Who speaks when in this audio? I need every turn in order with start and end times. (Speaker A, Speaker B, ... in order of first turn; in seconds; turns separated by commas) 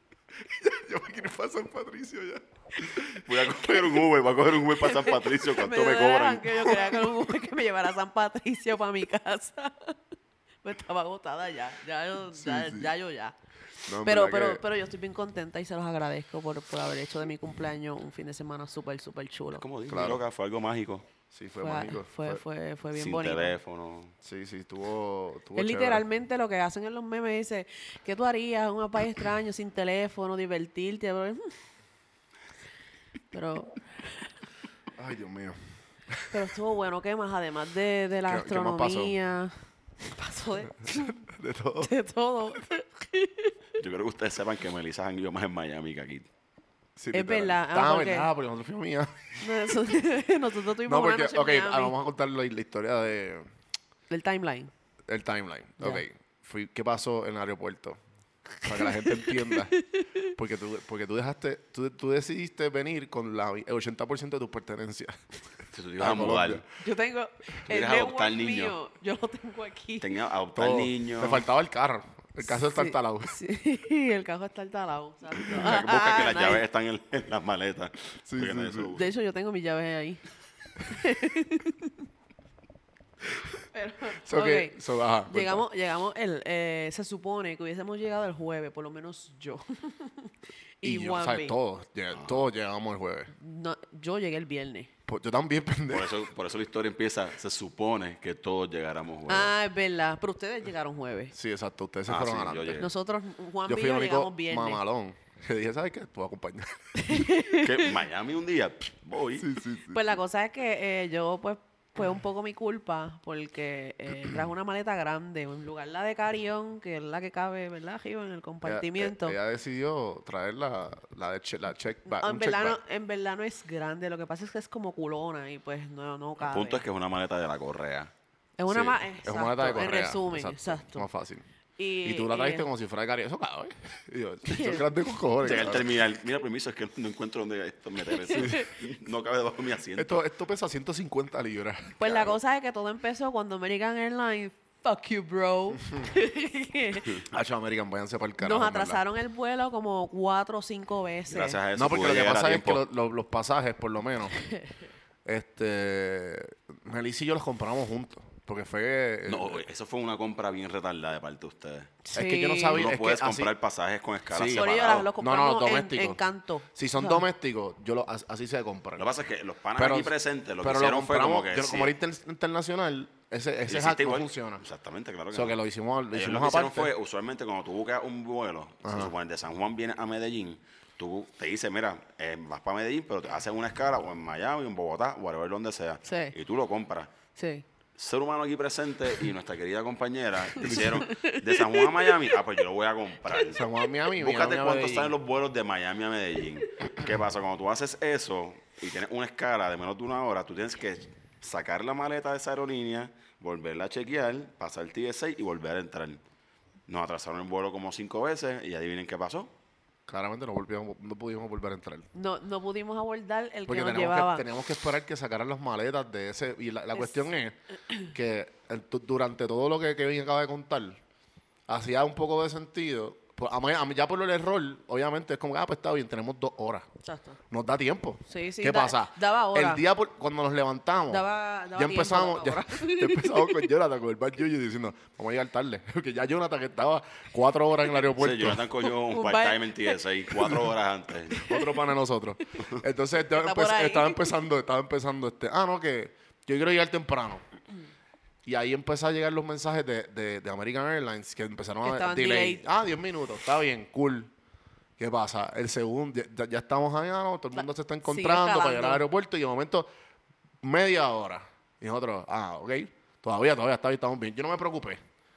Speaker A: 0.4-4.0, Speaker B: 3.1-6.7, Speaker C: 4.8-10.0, Speaker C: 10.6-13.3, Speaker A: 12.3-12.9, Speaker A: 13.8-14.6, Speaker C: 14.0-19.6, Speaker B: 19.5-21.1, Speaker A: 19.9-20.2, Speaker A: 21.3-22.4, Speaker C: 21.6-23.5, Speaker B: 22.9-24.1, Speaker A: 24.2-26.0, Speaker C: 25.6-31.5, Speaker C: 33.3-34.2, Speaker A: 35.0-35.6, Speaker A: 36.1-36.4, Speaker C: 36.3-41.2, Speaker A: 38.2-39.1, Speaker A: 40.8-41.9, Speaker C: 41.8-43.5, Speaker B: 43.8-46.3, Speaker A: 47.0-49.9, Speaker C: 47.1-48.3, Speaker C: 49.4-52.0, Speaker A: 50.8-53.5, Speaker C: 54.1-54.7, Speaker A: 55.1-58.0, Speaker A: 58.6-59.8, Speaker C: 58.7-60.3, Speaker A: 60.3-65.2, Speaker B: 65.7-66.6, Speaker A: 66.0-66.6, Speaker C: 66.8-70.1, Speaker B: 67.7-68.8, Speaker B: 70.0-71.4, Speaker A: 70.5-73.3, Speaker C: 72.4-76.6, Speaker B: 75.5-79.0, Speaker A: 78.2-79.0, Speaker C: 78.9-80.2, Speaker C: 80.8-81.9, Speaker C: 83.7-84.8, Speaker A: 84.2-85.6, Speaker C: 85.3-91.5, Speaker A: 90.8-93.3, Speaker B: 92.1-92.4, Speaker C: 93.3-94.9, Speaker A: 95.1-96.2, Speaker B: 95.9-99.5, Speaker C: 99.3-101.3, Speaker A: 101.3-102.9, Speaker B: 102.1-102.9, Speaker C: 102.8-104.8, Speaker A: 103.6-107.2, Speaker C: 107.0-107.9, Speaker B: 107.5-109.5, Speaker A: 109.4-110.0, Speaker C: 109.9-119.4, Speaker A: 118.6-122.8, Speaker C: 122.0-126.8, Speaker B: 126.4-128.1, Speaker C: 128.6-131.1, Speaker A: 128.7-131.4, Speaker C: 131.8-132.7, Speaker A: 132.0-135.9, Speaker C: 134.4-134.9, Speaker B: 135.4-140.2, Speaker C: 138.1-138.7, Speaker A: 138.3-138.6, Speaker A: 139.9-142.3, Speaker C: 142.0-147.2, Speaker A: 147.2-149.0, Speaker C: 148.4-151.6, Speaker B: 151.3-152.8, Speaker A: 151.7-154.4, Speaker A: 155.2-159.6, Speaker B: 159.3-162.0, Speaker C: 162.0-162.8, Speaker A: 162.1-163.5, Speaker B: 162.7-165.1, Speaker A: 164.3-166.2, Speaker C: 164.5-167.2, Speaker A: 166.7-169.1, Speaker B: 169.0-171.9, Speaker A: 169.8-174.6, Speaker B: 173.7-175.6, Speaker A: 175.3-176.9, Speaker B: 176.1-187.1, Speaker A: 178.8-179.1, Speaker C: 186.0-186.3, Speaker C: 187.3-187.6, Speaker B: 188.0-206.2, Speaker A: 190.6-191.0, Speaker C: 190.6-192.1, Speaker A: 193.5-195.2, Speaker B: 206.9-209.5, Speaker A: 210.1-212.1, Speaker C: 212.1-214.4, Speaker A: 213.7-217.6, Speaker C: 216.9-217.3, Speaker A: 218.1-221.0, Speaker A: 221.7-226.9, Speaker C: 227.0-227.4, Speaker A: 227.5-238.6, Speaker C: 228.3-229.8, Speaker C: 231.1-233.7, Speaker B: 238.0-241.5, Speaker C: 238.8-240.0, Speaker C: 241.3-241.6, Speaker A: 241.4-247.4, Speaker C: 243.2-244.3, Speaker A: 248.4-254.3, Speaker C: 251.8-252.6, Speaker A: 255.0-259.9, Speaker C: 257.6-259.0, Speaker A: 260.6-265.0